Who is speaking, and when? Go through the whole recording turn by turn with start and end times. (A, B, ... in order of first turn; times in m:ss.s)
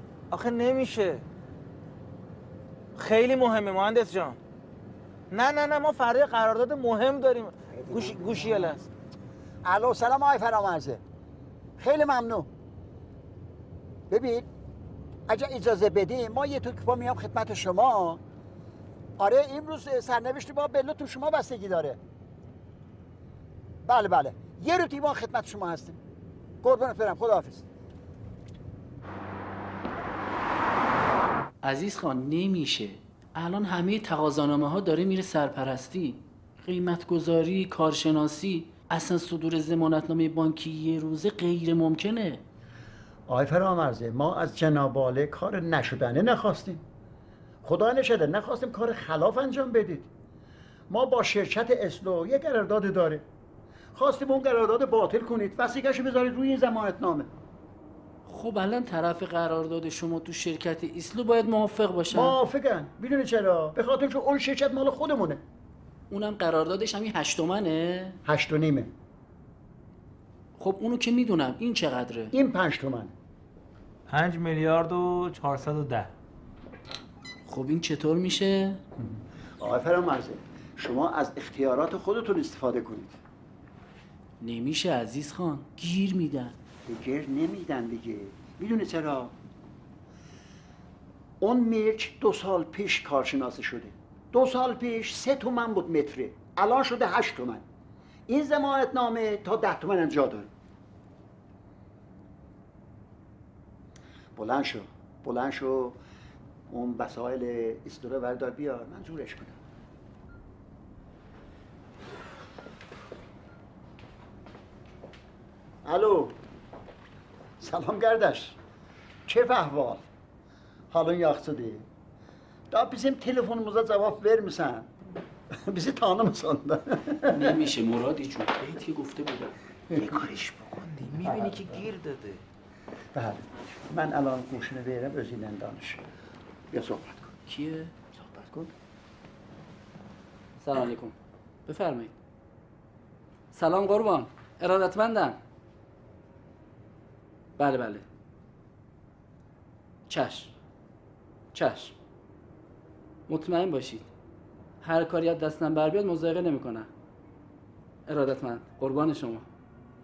0:00.3-0:01.2 A
0:03.0-0:04.4 A
0:05.3-0:08.8 A
0:07.7-0:08.7 B
0:09.6-0:11.0 B
0:11.8-0:12.5 B
0:14.1-0:14.5 B
0:15.3-0:18.2 B
0:19.2-0:22.0 B
0:23.8-0:26.0 B
0:26.6-0:27.7 B
0:31.6-0:42.4 C
0:43.3-0:46.9 B
0:47.6-0:50.1 B
0:50.9-0:53.2 B
0:54.0-0:57.3 B
0:58.3-1:02.4 C
1:02.1-1:05.4 B
1:06.1-1:08.2 C
1:08.2-1:08.9 B
1:10.6-1:12.4 C
1:12.3-1:13.1 B
1:14.1-1:16.1 A
1:17.5-1:18.8 C
1:19.0-1:23.2 B
1:24.4-1:26.6 C
1:26.8-1:29.4 B
1:31.4-1:37.7 B
1:38.3-1:40.5 B
1:44.4-1:46.0 B
1:46.7-1:49.6 B
1:55.8-1:56.4 B
1:57.6-1:58.6 B
1:59.3-2:00.1 B
2:00.9-2:01.9 B
2:02.7-2:04.9 B
2:05.5-2:07.6 B
2:07.3-2:09.5 C
2:09.9-2:10.2 B
2:11.2-2:11.8 B
2:13.1-2:16.0 B
2:16.7-2:17.3 B
2:17.5-2:18.0 C
2:18.3-2:18.7 B
2:20.6-2:22.1 C
2:23.5-2:25.4 C
2:27.6-2:28.0 C
2:30.1-2:30.5 C
2:31.5-2:32.0 C
2:33.3-2:34.1 C
2:34.8-2:36.9 C
2:38.1-2:39.4 C